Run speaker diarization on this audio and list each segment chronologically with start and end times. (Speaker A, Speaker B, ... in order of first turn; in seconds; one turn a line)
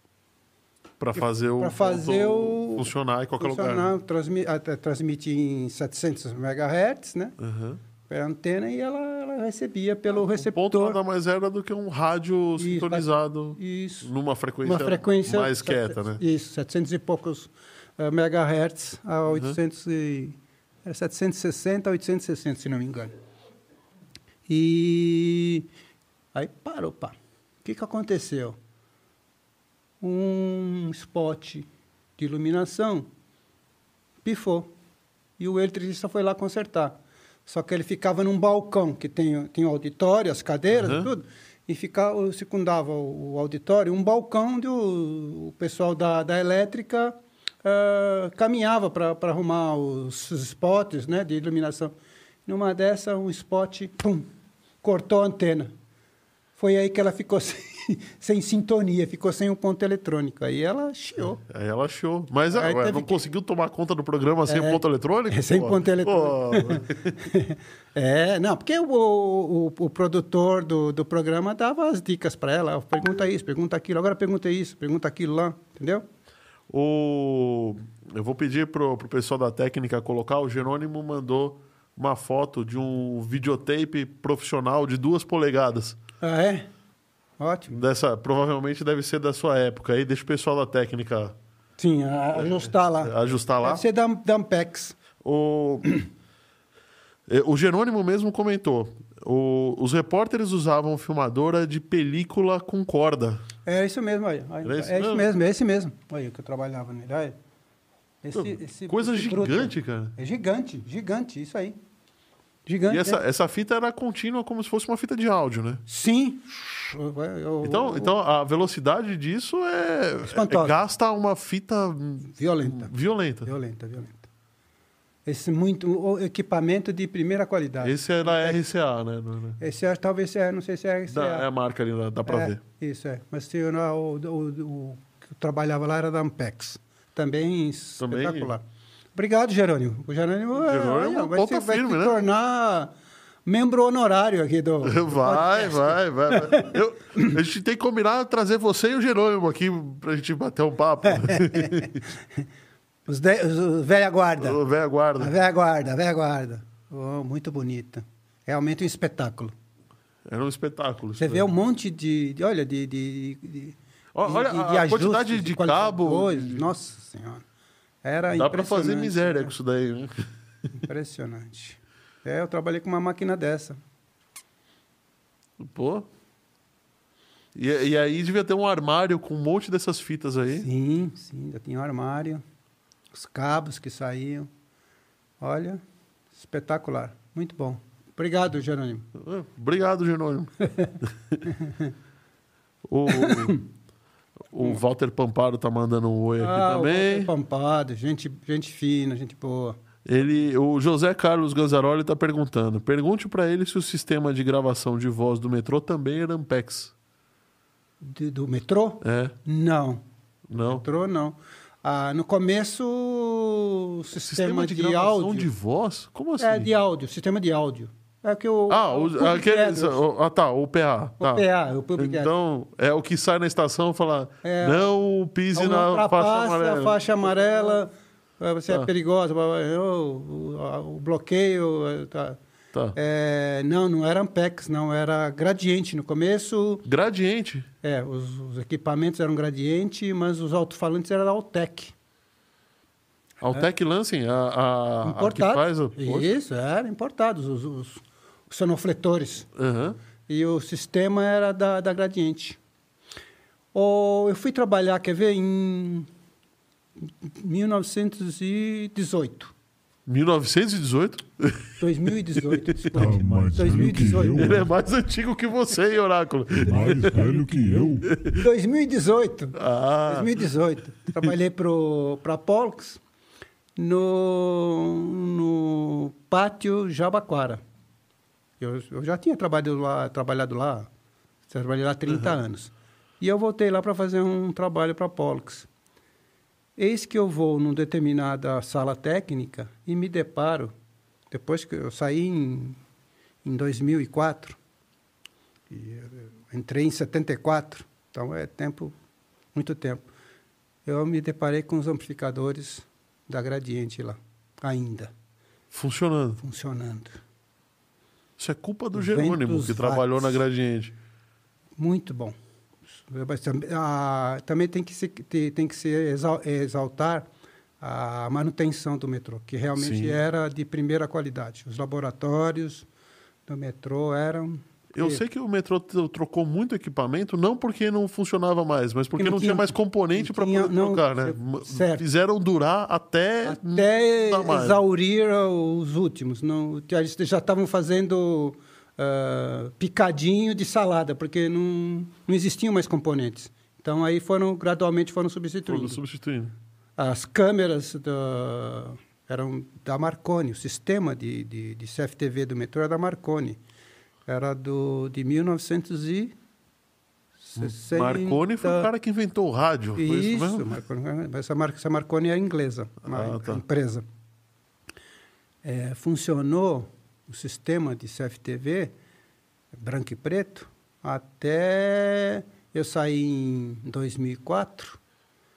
Speaker A: 1.0-4.0
Speaker B: 1.1-7.4
Speaker A: 7.4-7.8
Speaker B: 8.1-11.0
Speaker A: 10.1-16.2
Speaker B: 12.6-14.1
Speaker B: 14.6-23.1
Speaker A: 19.3-19.6
Speaker B: 24.5-25.7
Speaker B: 26.3-28.6
Speaker B: 30.0-33.1
Speaker B: 34.2-34.7
Speaker B: 35.4-51.9
Speaker A: 40.8-41.1
Speaker B: 52.5-54.2
Speaker B: 54.8-55.7
Speaker B: 56.6-61.4
Speaker A: 61.4-67.2
Speaker B: 62.5-63.2
Speaker B: 64.5-76.0
Speaker A: 76.7-86.0
Speaker B: 86.2-86.7
Speaker B: 87.4-87.8
Speaker A: 87.7-91.3
Speaker B: 91.8-95.0
Speaker A: 92.3-93.8
Speaker A: 95.2-95.8
Speaker A: 97.3-103.4
Speaker B: 103.6-107.3
Speaker A: 104.6-105.3
Speaker B: 108.2-111.8
Speaker A: 108.3-110.1
Speaker B: 112.7-113.2
Speaker A: 112.9-115.8
Speaker B: 115.9-118.1
Speaker A: 117.6-123.5
Speaker B: 120.2-120.7
Speaker B: 122.2-122.9
Speaker B: 123.4-124.3
Speaker B: 125.2-128.6
Speaker A: 127.8-129.6
Speaker B: 129.6-131.5
Speaker A: 131.1-132.6
Speaker B: 132.2-138.6
Speaker A: 138.0-138.5
Speaker B: 139.1-142.9
Speaker A: 140.6-142.2
Speaker B: 143.4-147.3
Speaker A: 144.8-152.0
Speaker B: 151.0-152.4
Speaker B: 153.1-154.6
Speaker A: 154.4-155.3
Speaker B: 155.2-159.5
Speaker A: 160.2-161.5
Speaker B: 161.2-167.4
Speaker A: 164.1-166.7
Speaker B: 168.0-169.5
Speaker A: 168.3-170.3
Speaker B: 170.8-173.8
Speaker A: 175.6-176.1
Speaker A: 177.5-180.7
Speaker B: 180.5-182.4
Speaker B: 183.1-184.5
Speaker B: 185.4-185.8
Speaker B: 186.3-189.1
Speaker A: 189.1-191.4
Speaker B: 190.6-191.9
Speaker A: 192.9-193.6
Speaker B: 193.1-193.6
Speaker A: 194.5-197.3
Speaker B: 196.4-199.8
Speaker A: 200.0-206.9
Speaker B: 208.0-210.0
Speaker A: 209.0-209.3
Speaker A: 210.5-210.8
Speaker B: 210.6-215.5
Speaker A: 214.2-216.7
Speaker B: 216.4-220.0
Speaker A: 218.7-221.4
Speaker B: 221.2-222.3
Speaker A: 222.0-227.0
Speaker B: 224.4-224.9
Speaker B: 225.5-232.4
Speaker B: 232.9-236.8
Speaker A: 236.8-237.7
Speaker B: 237.8-241.9
Speaker A: 243.4-246.3
Speaker B: 245.0-249.5
Speaker A: 249.6-250.0
Speaker B: 250.3-252.6
Speaker B: 253.7-256.1
Speaker B: 257.1-259.5
Speaker A: 260.1-261.8
Speaker B: 261.8-264.6
Speaker A: 262.4-262.9
Speaker C: 262.9-264.7
Speaker A: 264.3-267.2
Speaker C: 266.6-268.1
Speaker A: 268.1-268.4
Speaker B: 268.3-273.0
Speaker A: 269.5-270.4
Speaker B: 273.8-277.6
Speaker B: 278.6-280.9
Speaker B: 281.5-285.7
Speaker B: 286.8-290.7
Speaker B: 291.3-292.8
Speaker B: 293.4-294.6
Speaker B: 295.7-298.9
Speaker B: 299.5-300.0
Speaker B: 300.8-305.1
Speaker A: 305.7-306.4
Speaker B: 306.4-307.2
Speaker A: 308.4-310.9
Speaker B: 308.9-310.4
Speaker B: 311.8-312.3
Speaker B: 313.0-317.3
Speaker B: 317.8-322.9
Speaker A: 319.8-320.2
Speaker B: 323.5-325.2
Speaker A: 324.9-334.8
Speaker B: 329.2-332.0
Speaker B: 333.4-346.0
Speaker A: 345.6-346.5
Speaker B: 347.0-353.6
Speaker B: 354.3-356.3
Speaker B: 357.4-358.9
Speaker A: 357.6-360.7
Speaker B: 360.0-364.0
Speaker A: 363.0-363.6
Speaker B: 365.6-368.9
Speaker B: 369.7-375.0